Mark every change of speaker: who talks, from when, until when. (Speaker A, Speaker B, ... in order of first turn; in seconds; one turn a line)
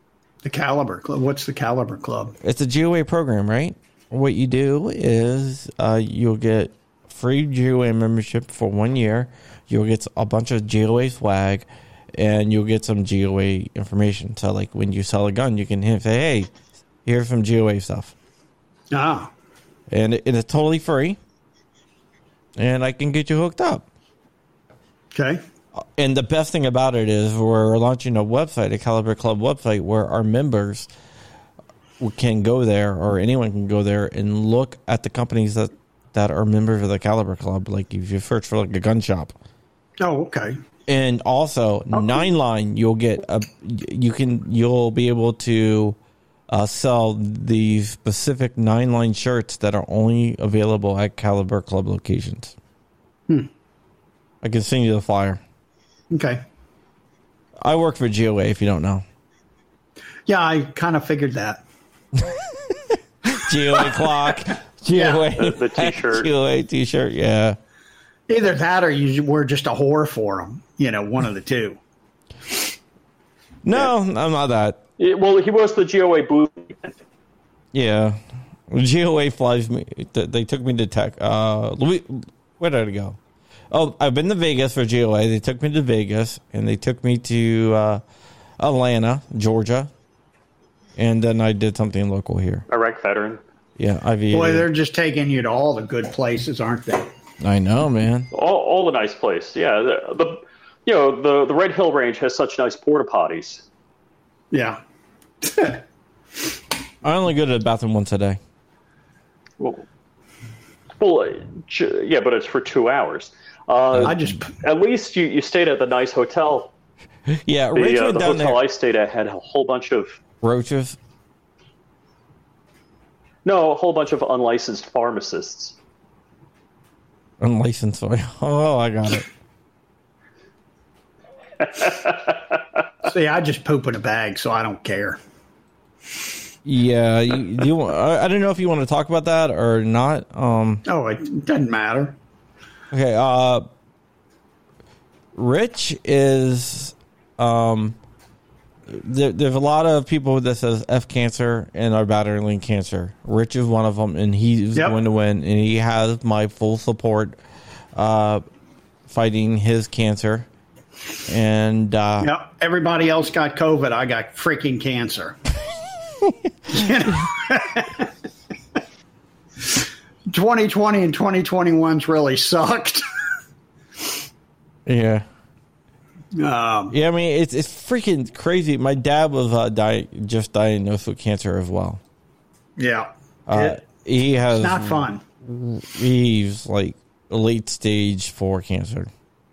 Speaker A: 0.4-2.4
Speaker B: 2.4-16.5
Speaker B: 17.0-18.1
Speaker A: 18.9-19.3
Speaker B: 19.9-21.2
Speaker B: 22.6-23.9
Speaker A: 25.1-25.4
Speaker B: 25.8-30.9
Speaker B: 32.0-39.3
Speaker A: 40.0-40.6
Speaker B: 40.9-46.0
Speaker A: 41.9-42.2
Speaker B: 46.5-52.5
Speaker B: 54.4-55.4
Speaker A: 56.1-56.4
Speaker B: 57.6-59.0
Speaker A: 60.3-61.6
Speaker B: 62.2-67.6
Speaker A: 63.7-64.0
Speaker A: 64.9-65.3
Speaker C: 65.3-66.3
Speaker A: 68.3-71.8
Speaker B: 73.6-74.8
Speaker C: 75.0-77.0
Speaker B: 77.7-83.2
Speaker B: 83.7-88.0
Speaker B: 88.6-89.9
Speaker B: 91.0-92.6
Speaker C: 92.7-93.4
Speaker B: 93.8-94.7
Speaker A: 94.3-97.1
Speaker B: 97.4-98.3
Speaker C: 98.3-103.6
Speaker A: 104.5-104.8
Speaker A: 105.4-105.8
Speaker B: 107.0-108.4
Speaker C: 111.0-116.7
Speaker B: 113.9-114.2
Speaker A: 114.0-114.5
Speaker B: 117.4-118.6
Speaker C: 117.7-120.2
Speaker B: 120.4-121.0
Speaker C: 123.4-125.8
Speaker B: 127.4-129.2
Speaker C: 131.6-132.5
Speaker A: 133.0-135.2
Speaker B: 136.6-140.8
Speaker A: 140.8-142.2
Speaker B: 142.9-143.7
Speaker B: 145.3-148.0
Speaker B: 148.9-157.4
Speaker B: 157.9-158.4
Speaker B: 159.1-160.5
Speaker B: 161.3-162.3
Speaker A: 162.2-165.3
Speaker A: 166.7-168.1
Speaker A: 169.7-173.0
Speaker B: 174.8-175.2
Speaker A: 176.3-176.9
Speaker B: 176.9-182.0
Speaker A: 182.8-183.8
Speaker B: 183.5-189.1
Speaker A: 184.6-185.2